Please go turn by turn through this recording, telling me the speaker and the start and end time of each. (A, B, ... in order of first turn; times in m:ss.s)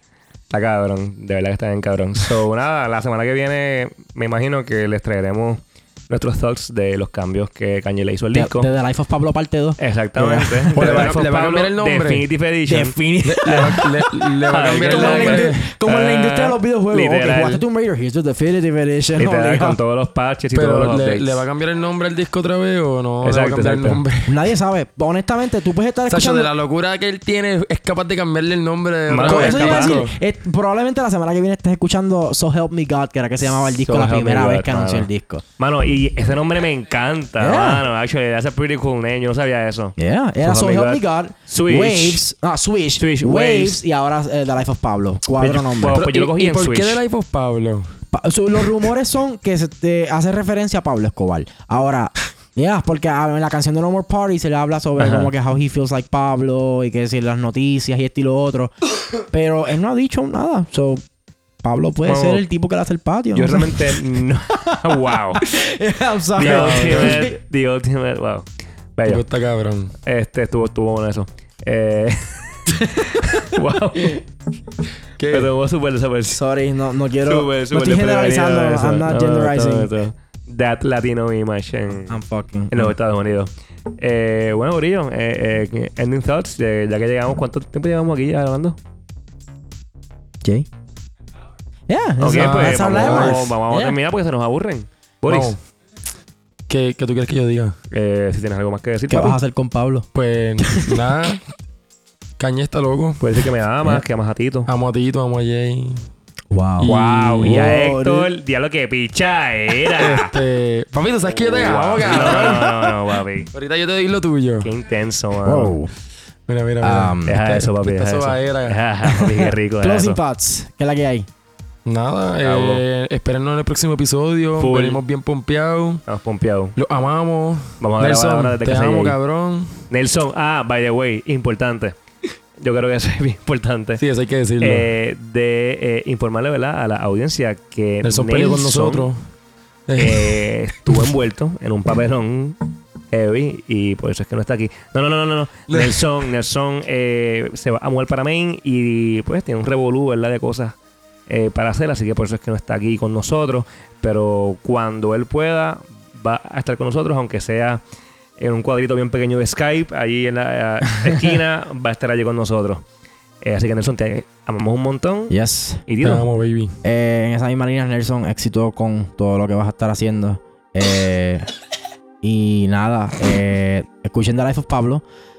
0:00.5-0:08.7 A
0:08.3-0:11.2 B
0:09.8-0:13.8 A
0:10.7-0:12.2 C
0:12.7-0:19.8 B
0:13.2-0:15.7 C
0:14.5-0:17.6 A
0:19.2-0:21.4 A
0:20.5-0:24.5 C
0:23.2-0:24.0 A
0:24.3-0:26.5 B
0:26.1-0:30.2 C
0:29.1-0:30.0 A
0:29.2-0:35.4 B
0:33.8-0:42.2 A
0:37.4-0:37.9 B
0:40.0-0:46.0 B
0:43.0-0:43.8 A
0:45.4-0:47.0 A
0:45.9-0:47.9 C
0:48.1-1:01.0 B
0:55.0-0:55.3 A
1:01.6-1:04.0 B
1:02.0-1:02.4 A
1:03.3-1:05.4 A
1:04.7-1:07.4 B
1:06.4-1:08.5 A
1:06.4-1:07.2 C
1:09.0-1:09.2 A
1:09.1-1:10.0 C
1:10.0-1:12.6 A
1:12.7-1:13.3 B
1:13.1-1:14.2 A
1:15.2-1:15.5 C
1:15.3-1:16.4 A
1:16.3-1:20.0 B
1:17.3-1:28.8 A
1:22.1-1:22.9 B
1:31.9-1:34.0 B
1:32.2-1:35.6 A
1:32.3-1:33.4 C
1:35.3-1:35.6 C
1:36.7-1:37.8 C
1:37.9-1:39.4 A
1:39.1-1:40.1 B
1:40.1-1:41.4 C
1:40.6-1:41.0 B
1:42.4-1:43.2 C
1:43.2-1:44.7 A
1:44.7-1:46.0 C
1:46.5-1:48.3 B
1:46.8-1:47.7 C
1:46.8-1:50.3 A
1:50.0-1:52.9 C
1:51.2-1:53.5 A
1:52.2-1:52.7 B
1:53.5-1:54.7 C
1:54.6-1:55.7 A
1:55.4-1:55.9 B
1:56.5-1:58.8 C
1:56.8-1:57.4 B
1:57.2-2:00.2 A
1:59.0-2:01.3 B
2:01.9-2:06.0 C
2:02.4-2:02.8 A
2:04.6-2:05.0 A
2:06.1-2:06.8 A
2:06.8-2:09.9 C
2:07.8-2:09.2 A
2:09.9-2:12.0 A
2:12.6-2:14.0 A
2:14.0-2:14.9 C
2:14.6-2:19.1 A
2:18.0-2:19.2 C
2:19.9-2:21.1 C
2:20.0-2:22.6 A
2:23.1-2:37.8 A
2:25.7-2:26.1 C
2:38.4-2:42.8 A
2:43.4-2:46.3 A
2:45.3-2:45.8 B
2:46.0-2:46.8 C
2:46.8-2:51.5 B
2:52.2-2:55.0 B